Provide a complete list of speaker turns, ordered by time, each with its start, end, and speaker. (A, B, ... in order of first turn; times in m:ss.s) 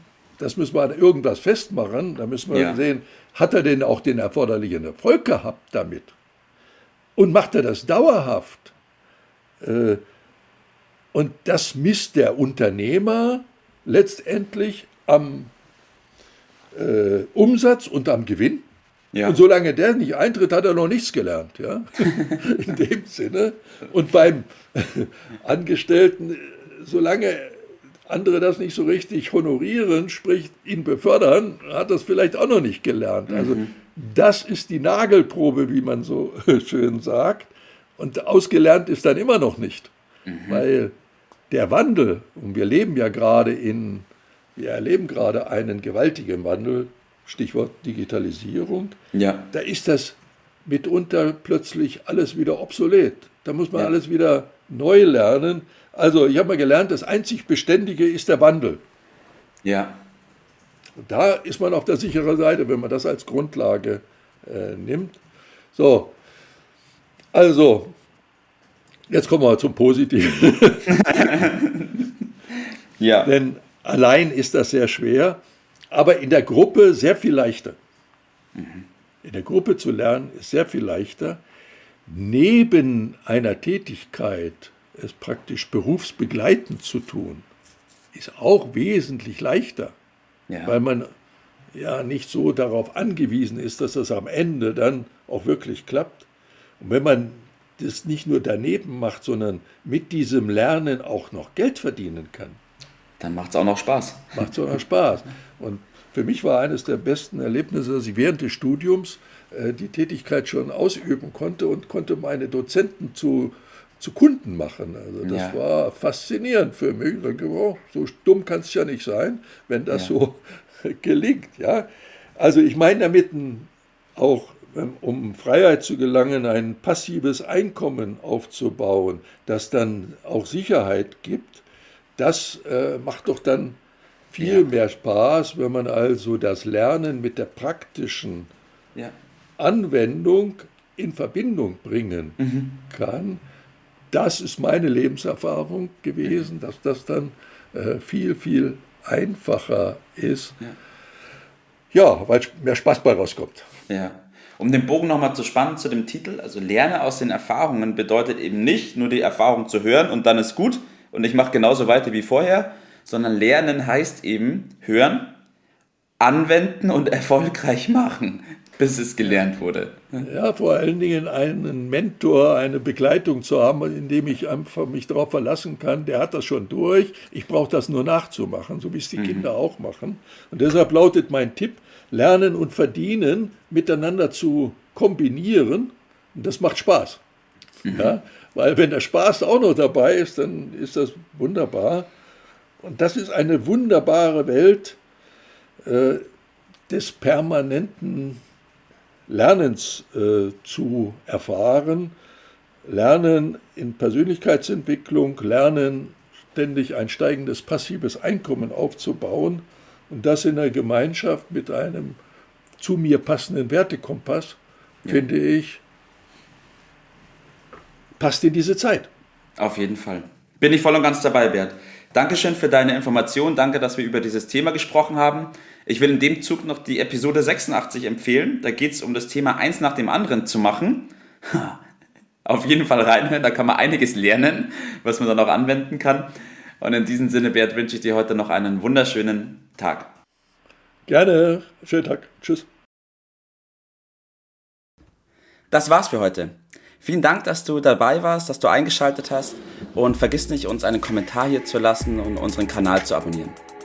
0:00.4-0:06.1 A
0:02.5-0:02.8 B
0:07.2-0:08.7 A
0:09.6-0:10.0 A
0:11.1-0:15.5 A
0:16.7-0:18.6 A
0:19.1-0:19.4 B
0:19.2-0:39.9 A
0:33.3-0:33.7 B
0:40.2-0:40.6 B
0:40.5-0:40.9 A
0:41.5-0:44.0 A
0:44.6-0:49.0 A
0:49.1-0:49.5 B
0:49.5-0:58.8 A
0:59.6-1:00.0 B
1:01.0-1:05.2 A
1:05.7-1:06.1 A
1:07.3-1:07.9 A
1:09.1-1:11.4 A
1:11.0-1:12.0 B
1:13.0-1:13.3 B
1:13.2-1:15.4 A
1:15.9-1:17.8 A
1:18.6-1:18.8 B
1:19.2-1:21.4 A
1:22.1-1:27.4 A
1:28.1-1:30.0 A
1:30.5-1:30.8 B
1:30.6-1:31.1 A
1:31.7-1:36.3 A
1:36.8-1:42.6 A
1:43.2-1:44.4 B
1:44.3-2:11.6 A
1:55.2-1:55.6 B
1:59.9-2:00.1 B
2:12.2-2:13.8 A
2:14.3-2:18.5 A
2:14.4-2:14.6 B
2:19.6-2:22.4 A
2:22.4-2:22.8 B
2:22.9-2:23.4 A
2:24.1-2:30.6 A
2:31.9-2:33.6 A
2:33.9-2:45.4 B
2:46.2-2:50.2 B
2:50.2-3:07.2 A
2:59.2-2:59.5 B
3:07.8-3:08.2 B
3:07.9-3:12.1 A
3:12.8-3:15.0 A
3:15.8-3:16.2 A
3:16.9-3:18.4 A
3:19.3-3:22.1 A
3:22.8-3:32.2 A
3:32.8-3:35.8 A
3:38.2-3:39.1 A
3:39.6-3:51.8 B
3:52.4-4:00.1 B
4:01.1-4:02.6 A
4:05.7-4:13.6 B